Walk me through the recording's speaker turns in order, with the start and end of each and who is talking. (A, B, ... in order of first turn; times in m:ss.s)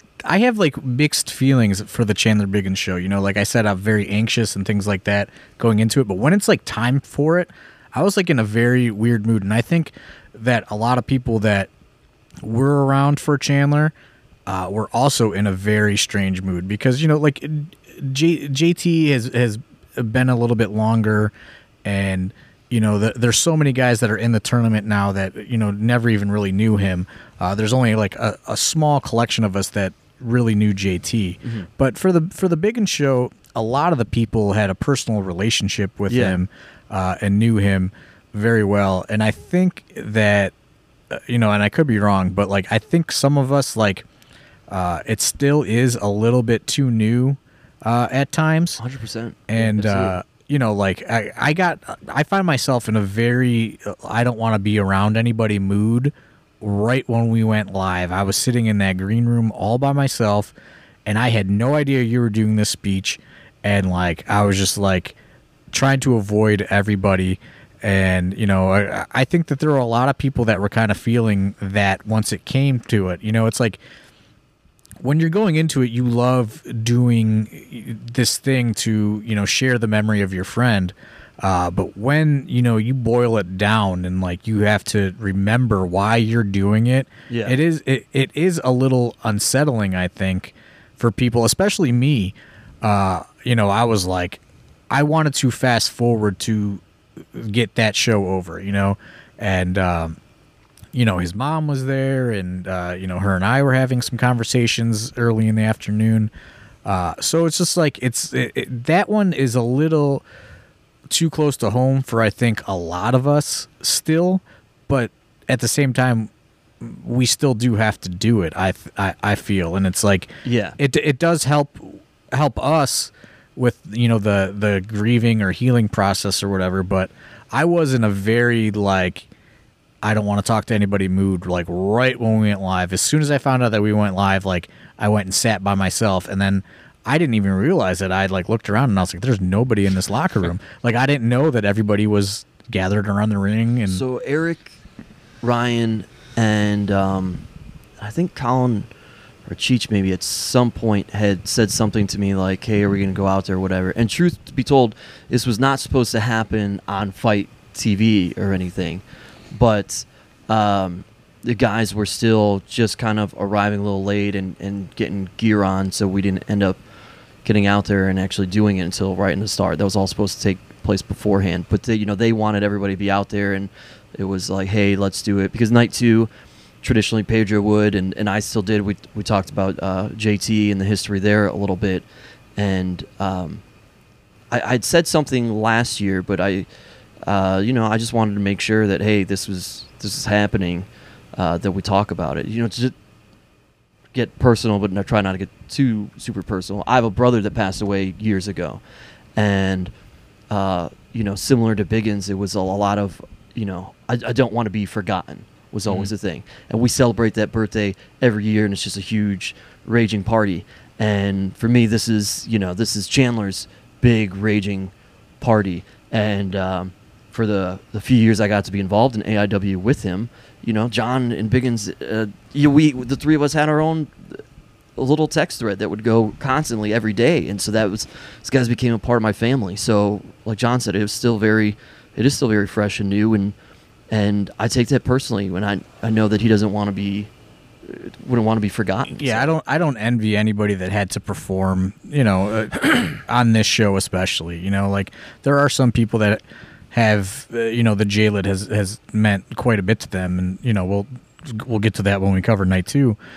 0:00.2-0:11.7 A
0:12.4-0:13.9 A
0:14.5-0:21.3 A
0:21.8-0:40.5 A
0:36.1-0:36.4 B
0:41.1-0:44.0 A
0:44.7-0:48.8 A
0:48.8-0:50.2 B
0:49.5-1:00.5 A
1:01.1-1:05.2 A
1:05.7-1:13.8 A
1:15.0-1:34.4 A
1:27.3-1:27.6 B
1:34.9-1:40.2 A
1:40.9-1:46.3 A
1:46.8-1:50.2 A
1:51.1-1:56.3 A
1:56.8-2:09.3 A
2:00.4-2:00.8 B
2:10.0-2:24.0 A
2:23.9-2:24.8 B
2:25.4-2:27.4 B
2:28.0-2:28.9 B
2:29.5-2:46.8 B
2:47.4-2:56.3 B
2:56.8-3:02.0 B
3:02.6-3:03.6 B
3:04.5-3:06.7 B
3:07.2-3:12.9 B
3:14.1-3:18.8 B
3:19.4-3:19.9 B
3:20.5-3:44.4 B
3:45.0-3:53.6 B
3:54.1-3:57.3 B
3:57.8-3:59.5 B
3:59.2-4:13.2 A